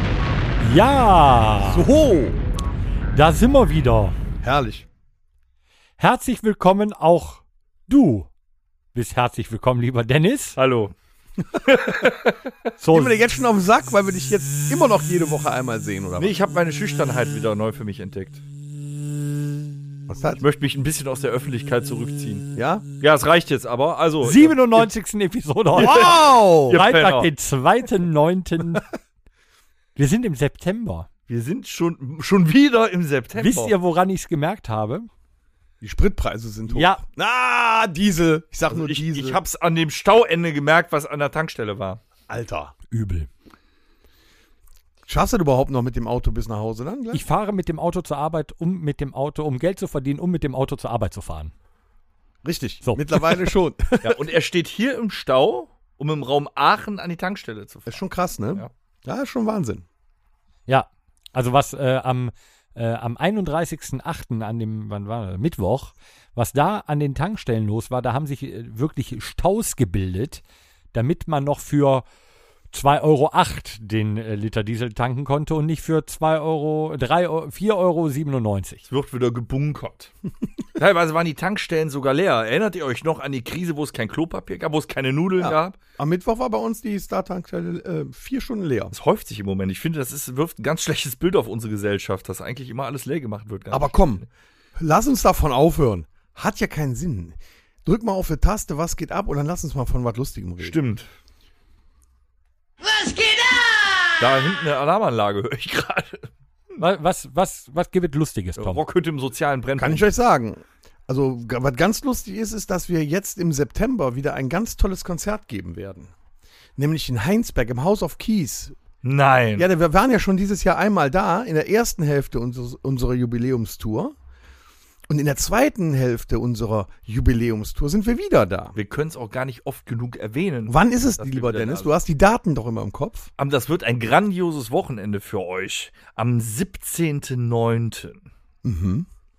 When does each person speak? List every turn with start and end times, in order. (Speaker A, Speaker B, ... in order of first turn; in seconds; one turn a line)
Speaker A: 0.6-1.9
Speaker B: 1.6-2.4
Speaker A: 3.1-4.2
Speaker B: 4.4-4.9
Speaker A: 6.0-8.3
Speaker A: 8.9-10.6
Speaker C: 10.6-10.9
Speaker C: 11.6-12.5
Speaker A: 12.8-13.2
Speaker B: 12.9-16.4
Speaker C: 16.2-18.4
Speaker B: 20.1-20.4
Speaker C: 20.4-22.5
Speaker B: 22.6-22.9
Speaker C: 23.0-24.9
Speaker A: 24.2-28.9
Speaker C: 25.7-27.3
Speaker B: 25.8-26.8
Speaker A: 30.0-31.1
Speaker C: 31.3-33.7
Speaker A: 33.4-35.1
Speaker B: 35.8-39.4
Speaker A: 36.7-37.0
Speaker C: 38.7-42.0
Speaker B: 42.3-42.7
Speaker A: 42.9-43.3
Speaker B: 45.1-47.2
Speaker A: 47.1-51.5
Speaker B: 52.4-54.1
Speaker A: 52.9-53.4
Speaker C: 54.0-58.0
Speaker B: 57.9-59.8
Speaker A: 60.7-70.4
Speaker A: 70.9-72.0
Speaker A: 72.7-78.8
Speaker C: 78.9-80.1
Speaker C: 80.8-85.8
Speaker B: 85.4-88.9
Speaker C: 88.9-94.2
Speaker B: 93.7-94.2
Speaker B: 94.8-100.8
Speaker C: 100.6-101.1
Speaker A: 102.8-104.0
Speaker C: 104.2-106.3
Speaker A: 106.8-108.8
Speaker C: 108.6-110.0
Speaker B: 109.8-116.1
Speaker B: 116.8-118.8
Speaker C: 119.0-119.7
Speaker B: 119.6-124.2
Speaker B: 125.1-128.8
Speaker C: 128.8-131.9
Speaker B: 130.7-133.3
Speaker C: 133.4-138.3
Speaker B: 138.6-139.1